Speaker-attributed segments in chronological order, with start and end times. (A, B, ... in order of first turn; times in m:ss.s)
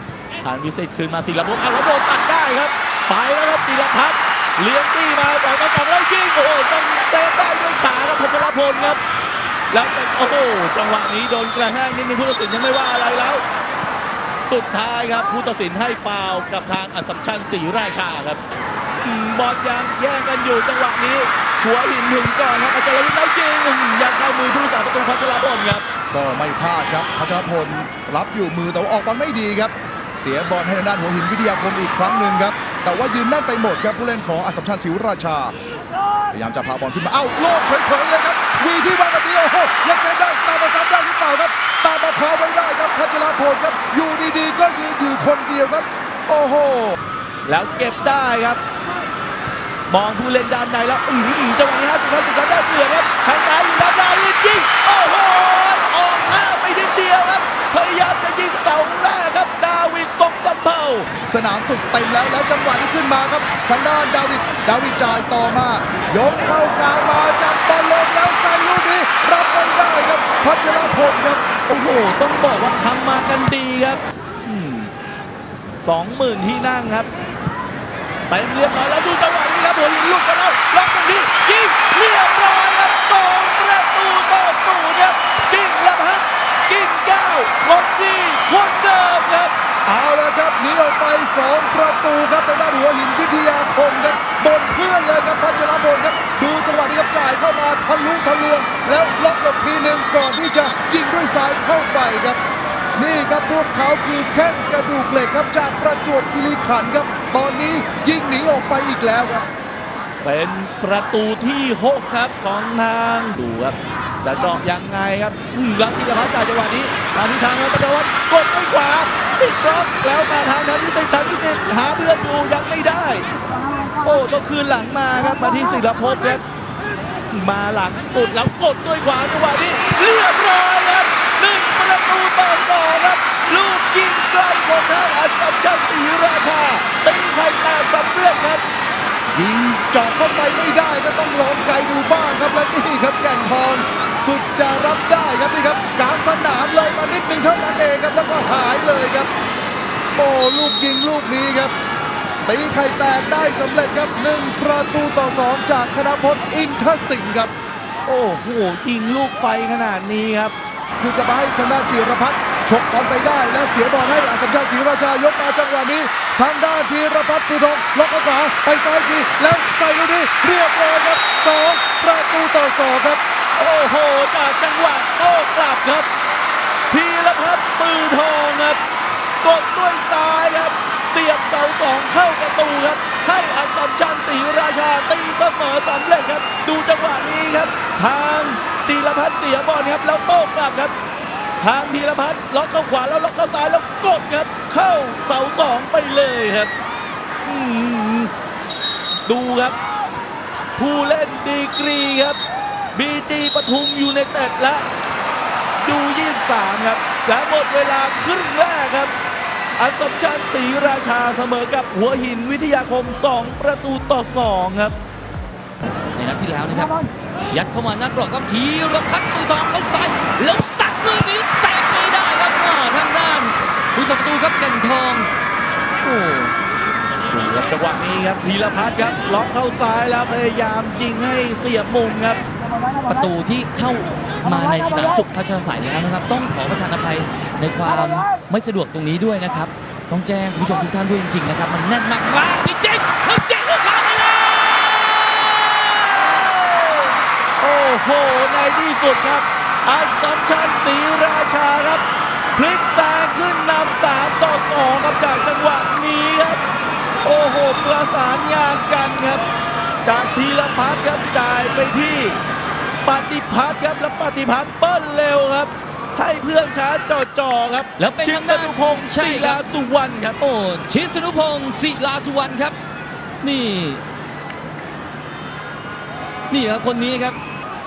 0:00.4-0:09.0 A
0:09.7-0:13.4 A
0:14.5-0:18.4 A
0:19.0-0:25.9 A
0:26.1-0:35.6 B
0:36.3-0:47.0 B
0:47.5-0:48.6 A
0:49.9-1:01.1 A
1:01.3-1:11.4 B
1:11.7-1:14.9 A
1:15.8-1:17.1 A
1:18.3-1:29.5 A
1:29.9-1:42.4 B
1:43.0-1:49.5 B
1:50.2-2:03.3 A
2:04.0-2:06.4 A
2:07.3-2:18.6 A
2:19.3-2:29.3 B
2:30.2-2:31.7 B
2:32.4-2:37.5 B
2:38.1-2:40.6 A
2:41.0-2:53.2 B
2:53.6-2:56.1 A
2:56.9-2:58.8 A
2:59.4-3:10.9 A
3:11.6-3:16.7 A
3:17.4-3:18.3 A
3:19.3-3:19.8 A
3:20.8-3:22.4 A
3:23.0-3:24.9 A
3:25.8-3:29.1 A
3:29.8-3:35.0 A
3:36.2-3:45.3 C
3:46.0-3:46.5 C
3:47.3-3:52.4 A
3:53.1-4:06.5 C
4:06.1-4:12.0 A
4:12.6-4:16.6 A
4:17.2-4:19.4 A
4:20.0-4:22.4 A
4:23.0-4:30.4 A
4:28.0-4:29.6 C
4:30.4-4:32.8 C
4:33.4-4:34.0 C
4:36.5-4:37.4 C